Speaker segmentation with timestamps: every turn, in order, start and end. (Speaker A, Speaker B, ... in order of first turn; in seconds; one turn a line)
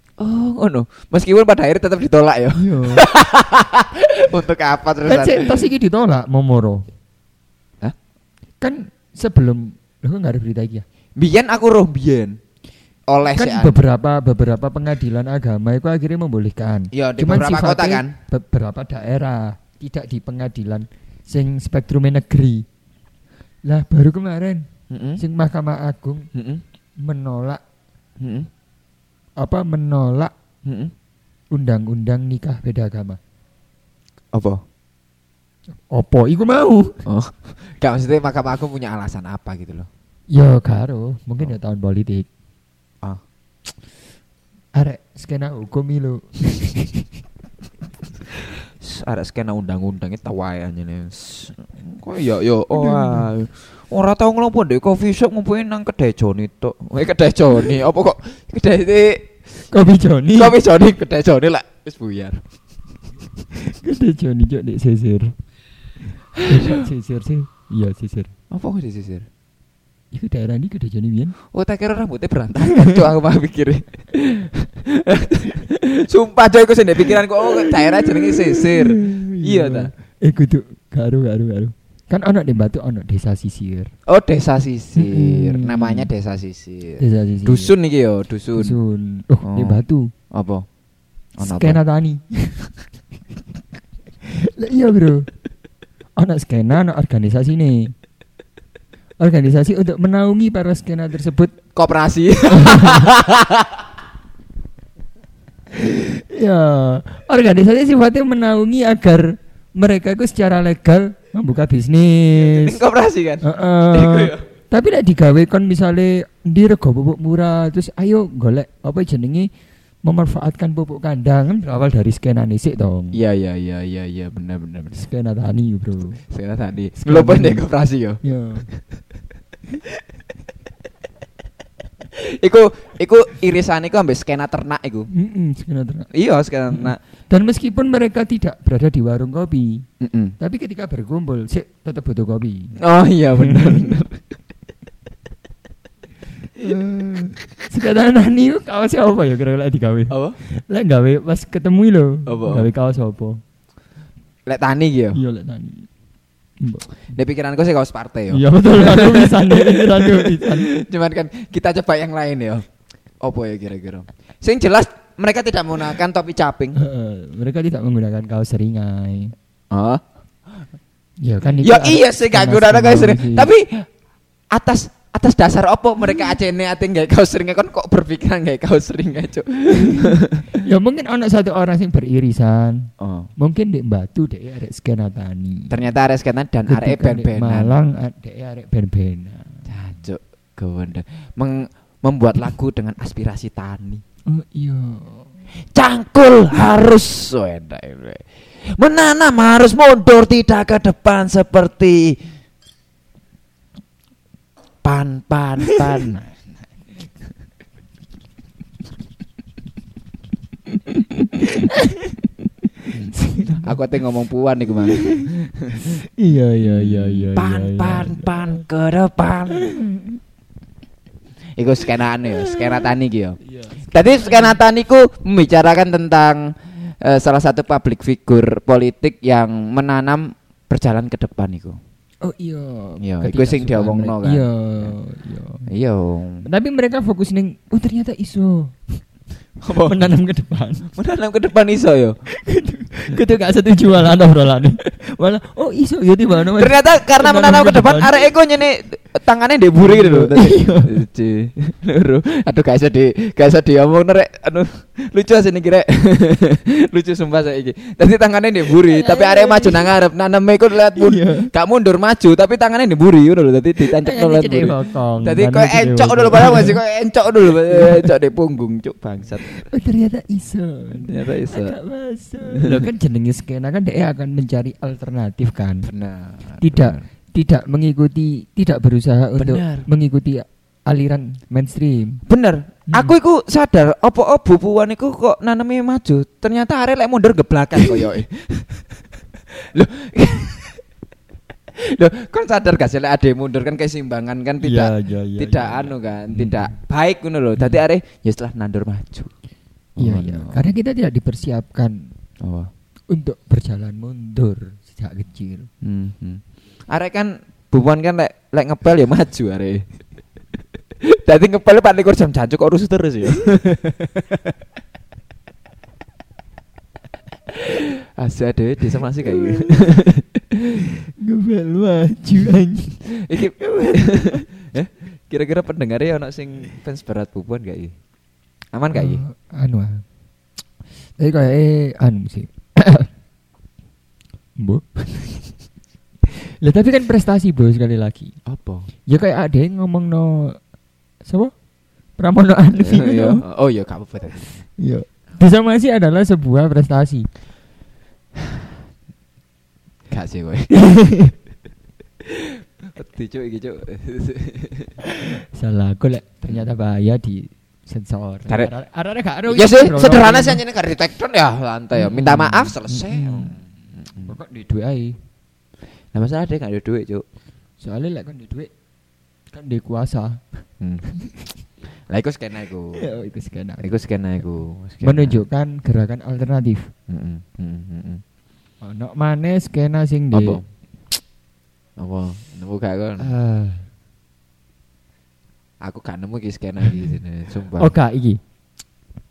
Speaker A: 0.2-5.6
Speaker B: 2.6-3.1
Speaker B: 5.1-6.9
Speaker B: 8.6-10.8
Speaker A: 11.2-12.4
Speaker A: 13.1-13.8
Speaker B: 13.3-22.7
Speaker A: 16.9-18.1
Speaker B: 23.7-24.6
Speaker A: 24.9-25.2
Speaker B: 25.2-26.3
Speaker A: 26.3-26.6
Speaker B: 27.0-27.6
Speaker A: 28.2-28.5
Speaker B: 29.4-30.3
Speaker A: 30.6-30.9
Speaker B: 31.5-33.2
Speaker A: 34.3-34.6
Speaker B: 35.9-37.0
Speaker A: 37.1-39.9
Speaker B: 40.3-42.3
Speaker B: 44.8-47.1
Speaker A: 48.8-59.3
Speaker B: 52.7-53.3
Speaker B: 59.7-60.6
Speaker A: 60.3-62.4
Speaker B: 63.6-65.3
Speaker A: 66.4-66.8
Speaker B: 66.4-68.3
Speaker A: 68.5-69.3
Speaker B: 70.1-71.4
Speaker A: 71.5-79.9
Speaker B: 72.6-73.0
Speaker B: 77.5-83.9
Speaker A: 84.1-88.8
Speaker B: 85.0-86.1
Speaker B: 87.0-87.7
Speaker B: 88.6-90.1
Speaker A: 89.4-90.7
Speaker A: 91.4-91.8
Speaker B: 91.4-92.7
Speaker B: 94.3-95.3
Speaker B: 96.2-97.9
Speaker B: 99.2-101.5
Speaker A: 101.8-103.8
Speaker B: 102.5-103.1
Speaker B: 105.7-112.8
Speaker A: 112.4-114.5
Speaker B: 113.4-119.5
Speaker B: 120.0-123.2
Speaker A: 123.1-125.0
Speaker B: 124.9-126.2
Speaker A: 126.3-128.2
Speaker B: 127.0-127.6
Speaker B: 128.2-128.7
Speaker A: 132.1-135.1
Speaker B: 135.1-136.1
Speaker A: 136.1-137.0
Speaker B: 136.7-139.9
Speaker A: 140.0-140.3
Speaker B: 140.4-142.8
Speaker A: 142.8-144.2
Speaker B: 143.3-144.0
Speaker B: 146.6-153.4
Speaker A: 150.1-150.4
Speaker A: 152.3-152.7
Speaker A: 154.5-155.2
Speaker B: 155.1-155.9
Speaker B: 156.6-156.9
Speaker A: 157.1-162.7
Speaker B: 158.3-160.7
Speaker A: 163.2-166.8
Speaker B: 166.8-169.3
Speaker A: 169.7-170.0
Speaker B: 171.2-173.5
Speaker A: 171.6-173.9
Speaker A: 174.5-180.6
Speaker B: 179.8-185.9
Speaker A: 183.0-183.3
Speaker A: 185.7-187.8
Speaker B: 186.7-189.7
Speaker A: 189.7-194.0
Speaker B: 194.3-195.3
Speaker A: 195.7-202.2
Speaker A: 204.8-206.3
Speaker B: 211.0-212.2
Speaker B: 212.8-213.7
Speaker A: 212.9-216.0
Speaker B: 214.9-218.4
Speaker A: 216.6-219.8
Speaker B: 219.6-220.2
Speaker A: 221.6-223.4
Speaker B: 222.4-222.8
Speaker B: 223.4-224.6
Speaker A: 223.9-231.8
Speaker B: 232.2-235.7
Speaker A: 233.0-234.9
Speaker A: 235.7-236.4
Speaker B: 236.4-238.8
Speaker A: 239.6-240.1
Speaker B: 239.7-240.9
Speaker A: 240.9-242.2
Speaker B: 242.3-248.3
Speaker A: 246.6-269.5
Speaker B: 249.8-250.9
Speaker B: 258.8-259.9
Speaker B: 261.0-261.5
Speaker B: 263.9-266.8
Speaker B: 267.7-268.1
Speaker B: 269.5-275.9
Speaker A: 271.0-271.8
Speaker A: 272.5-272.9
Speaker A: 275.8-277.0
Speaker B: 276.6-282.2
Speaker A: 279.4-279.9
Speaker A: 282.3-290.8
Speaker A: 291.7-299.3
Speaker B: 294.6-296.7
Speaker A: 300.0-300.7
Speaker B: 300.0-302.1
Speaker A: 302.4-302.7
Speaker B: 303.1-305.7
Speaker A: 305.8-309.9
Speaker A: 311.0-314.5
Speaker A: 317.5-320.8
Speaker B: 319.4-319.9
Speaker B: 320.8-323.1
Speaker A: 323.0-327.9
Speaker B: 323.6-324.4
Speaker A: 328.7-329.2
Speaker B: 328.9-330.0
Speaker B: 331.2-333.1
Speaker B: 334.6-335.3
Speaker B: 336.5-338.4
Speaker A: 338.5-338.9
Speaker B: 339.1-340.6
Speaker B: 341.2-341.5
Speaker B: 342.2-343.4
Speaker A: 342.8-344.6
Speaker B: 344.8-347.3
Speaker A: 350.1-350.7
Speaker B: 350.7-351.3
Speaker A: 352.2-354.9
Speaker B: 355.1-360.6
Speaker A: 359.5-364.3
Speaker B: 361.9-363.6
Speaker B: 364.3-365.2
Speaker A: 366.1-367.2
Speaker B: 367.8-368.7
Speaker B: 369.5-370.4
Speaker A: 372.1-373.0
Speaker B: 372.9-373.9
Speaker A: 373.8-375.4
Speaker B: 375.0-376.9
Speaker A: 377.1-378.2
Speaker B: 378.8-380.6
Speaker A: 380.3-380.6
Speaker A: 382.0-383.3
Speaker B: 383.2-383.9
Speaker A: 385.8-387.9
Speaker B: 387.8-388.4